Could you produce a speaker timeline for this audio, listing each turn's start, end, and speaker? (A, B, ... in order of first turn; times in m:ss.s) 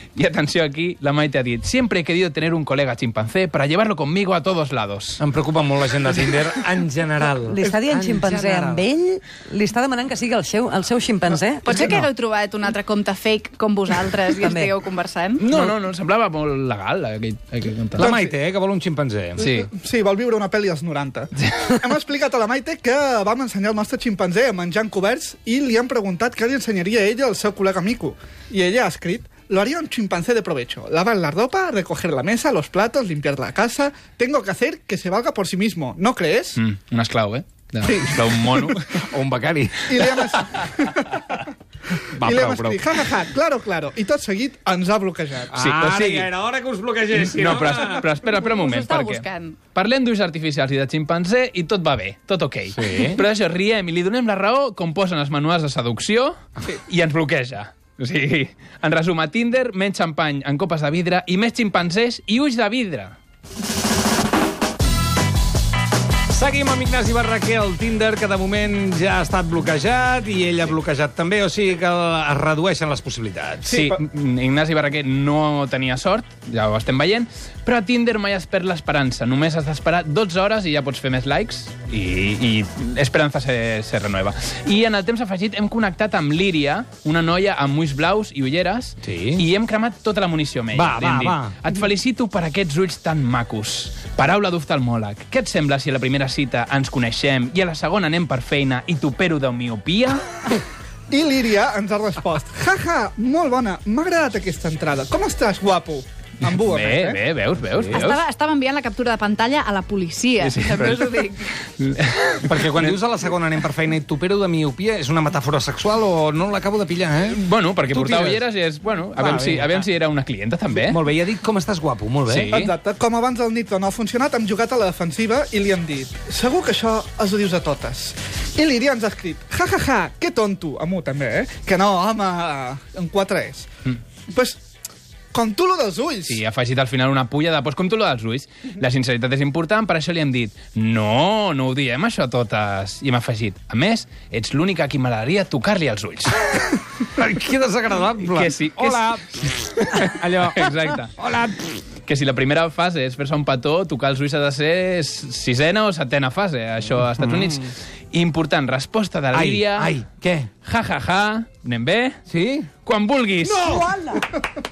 0:00.2-0:05.2 A
0:05.2-0:08.9 B
0:07.5-0:11.7 C
0:11.6-0:15.5 D
0:14.4-0:14.7 C
0:15.4-0:18.1 A
0:17.9-0:19.4 B
0:18.0-0:18.4 E
0:19.4-0:36.6 E
0:19.4-0:19.7 A
0:36.5-0:39.0 A
0:37.8-0:40.1 B
0:39.9-0:41.5 E
0:42.1-0:42.8 B
0:42.2-0:45.5 E
0:45.5-0:48.1 B
0:45.6-0:46.3 A
0:47.1-1:03.2 A
0:48.2-0:49.6 D
0:52.7-0:53.2 B
1:06.3-1:13.7 B
1:13.6-1:14.0 E
1:13.7-1:40.2 A
1:29.0-1:29.4 B
1:30.7-1:31.6 B
1:41.1-1:47.2 E
1:46.5-1:48.2 A
1:47.8-1:48.1 B
1:47.9-1:51.6 D
1:50.4-1:52.9 A
1:52.4-1:58.5 B
1:57.3-2:01.0 A
1:59.1-1:59.9 B
2:00.7-2:02.5 B
2:02.3-2:02.7 A
2:02.5-2:13.7 E
2:14.3-2:14.6 E
2:15.3-2:16.4 E
2:16.2-2:26.5 A
2:27.1-2:31.8 B
2:28.2-2:29.1 A
2:29.8-2:31.1 A
2:32.1-2:40.0 A
2:37.0-2:37.6 B
2:39.3-2:40.5 B
2:40.6-2:42.2 A
2:42.3-2:42.8 B
2:42.8-2:43.6 A
2:43.4-2:44.2 B